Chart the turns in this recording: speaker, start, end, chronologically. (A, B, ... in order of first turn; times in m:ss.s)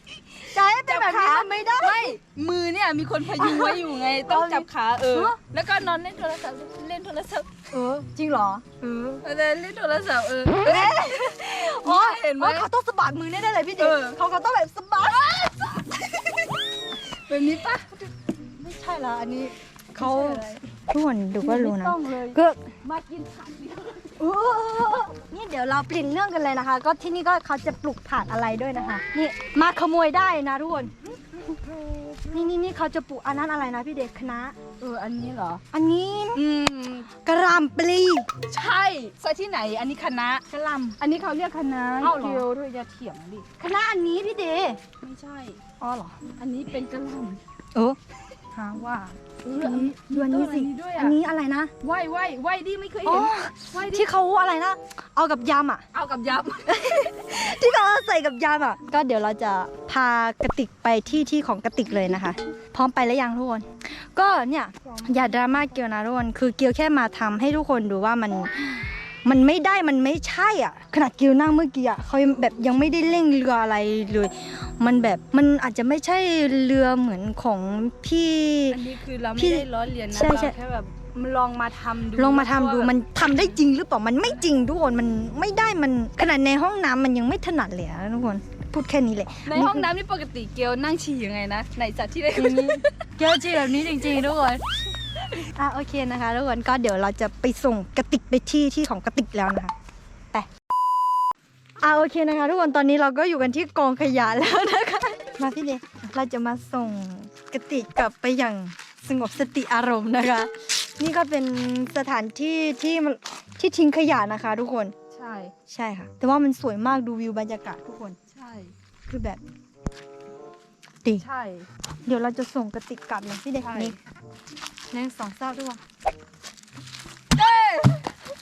0:00.4-0:02.2 A
0:00.9-0:07.5 B
0:03.4-0:05.4 A
0:07.7-0:09.2 A
0:09.2-0:12.7 B
0:10.6-0:16.4 A
0:13.8-0:14.2 B
0:15.1-0:15.9 B
0:17.1-0:18.0 B
0:18.6-0:22.6 A
0:20.0-0:20.6 B
0:21.4-0:24.2 B
0:24.2-0:30.9 A
0:31.6-0:32.2 B
0:32.3-0:34.6 A
0:34.8-0:35.6 B
0:35.7-0:36.4 A
0:36.3-0:37.1 B
0:37.2-0:38.3 A
0:38.5-0:40.4 B
0:40.5-0:41.0 A
0:41.0-0:43.5 B
0:42.0-0:42.5 A
0:43.6-0:44.8 A
0:45.0-0:45.6 B
0:45.8-0:46.2 A
0:46.4-0:47.4 B
0:48.5-0:51.7 A
0:49.4-0:51.2 B
0:51.8-0:54.1 B
0:53.0-0:55.8 A
0:55.9-0:56.8 B
0:56.7-1:08.6 A
1:04.9-1:05.6 B
1:09.2-1:18.8 A
1:18.7-1:22.9 B
1:19.4-1:20.6 A
1:22.2-1:29.9 A
1:29.4-1:33.0 B
1:32.4-1:34.6 A
1:35.3-1:39.7 A
1:41.8-1:55.0 A
1:55.1-1:55.5 B
1:55.7-1:58.2 A
1:58.3-1:58.7 B
1:59.1-1:59.4 A
2:01.2-2:01.7 B
2:02.0-2:04.0 A
2:03.6-2:04.0 B
2:04.9-2:05.8 A
2:07.3-2:08.2 B